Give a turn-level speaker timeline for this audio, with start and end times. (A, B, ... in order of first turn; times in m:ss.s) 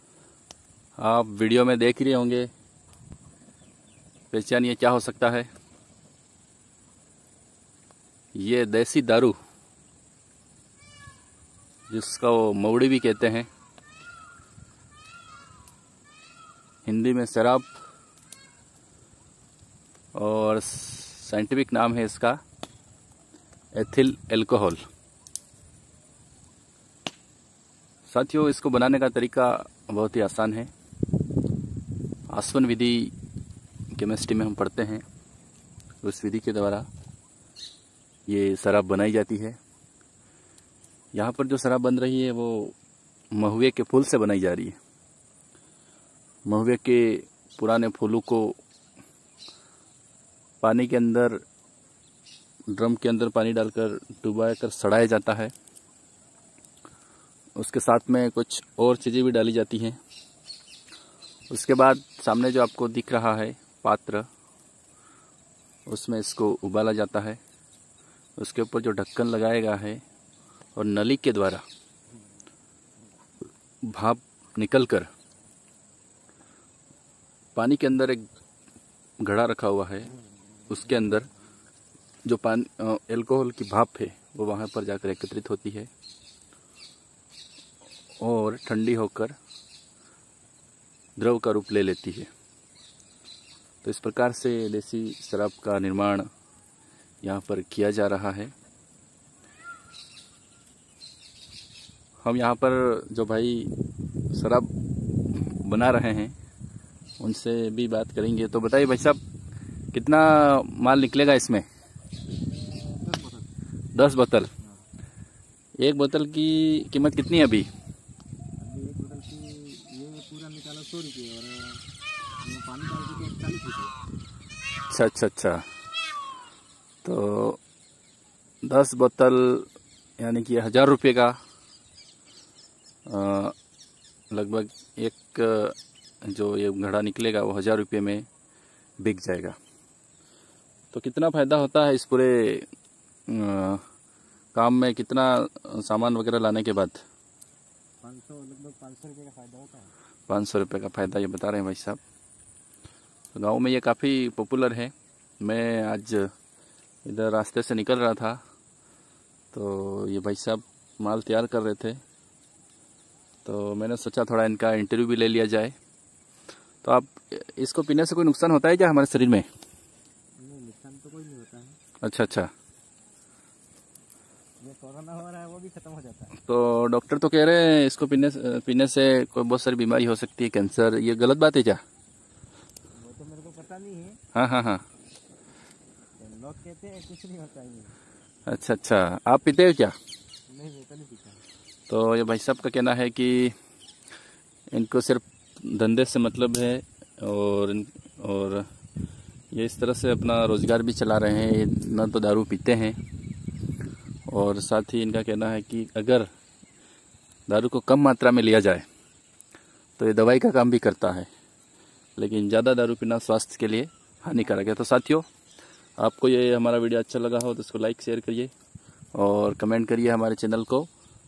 0:01.0-0:02.5 A
0:04.3-0:05.5 A
0:08.4-0:09.4 A
0:11.9-0:13.5 A
0:16.9-0:17.7 A
0:20.2-0:22.4 A
0:23.8-0:24.8 A
0:28.1-0:30.7 A
0:32.3-0:33.1 A
0:33.9-0:35.0 A
0:36.0-0:36.9 A
0:38.3-0:39.6 A
0:41.1-0:42.8 A
0:43.3-0:44.8 A
0:46.5-0:48.6 A
0:50.6-0:51.4 A
0:52.7-0:55.5 A
0:57.6-1:00.0 A
1:01.5-1:04.3 A
1:05.9-1:07.4 A
1:08.4-1:10.0 A
1:10.8-1:11.6 A
1:13.9-1:15.1 A
1:17.6-1:18.2 A
1:19.2-1:20.1 A
1:20.7-1:21.3 A
1:22.3-1:25.9 A
1:28.2-1:29.4 A
1:31.2-1:32.3 A
1:33.8-1:36.3 A
1:37.2-1:38.5 A
1:42.2-1:43.7 A
1:44.3-1:46.4 A
1:47.2-1:49.2 A
1:49.9-1:51.6 A
1:52.4-1:53.5 B
1:54.0-1:54.5 A
1:55.8-1:57.7 A
1:58.6-2:01.8 B
2:02.4-2:04.0 B
2:04.9-2:05.6 A
2:07.0-2:07.6 A
2:08.6-2:09.7 A
2:10.2-2:11.4 A
2:13.1-2:13.6 A
2:14.3-2:18.3 A
2:19.0-2:19.6 A
2:20.9-2:22.7 A
2:23.3-2:23.8 A
2:24.6-2:27.0 A
2:28.0-2:29.9 B
2:30.3-2:32.0 A
2:33.4-2:36.3 A
2:37.1-2:38.4 A
2:39.5-2:42.0 A
2:43.4-2:45.7 A
2:46.8-2:49.5 A
2:50.4-2:51.8 B
2:52.0-2:52.5 A
2:54.6-2:56.4 B
2:56.4-3:01.8 A
3:03.0-3:04.2 B
3:04.3-3:04.8 A
3:06.2-3:08.0 B
3:08.5-3:10.0 A
3:10.5-3:11.4 B
3:11.9-3:13.6 A
3:14.7-3:18.7 A
3:19.5-3:23.0 A
3:24.3-3:26.3 A
3:27.5-3:28.8 A
3:30.0-3:31.3 A
3:32.2-3:35.3 A
3:36.0-3:38.5 A
3:39.2-3:40.9 A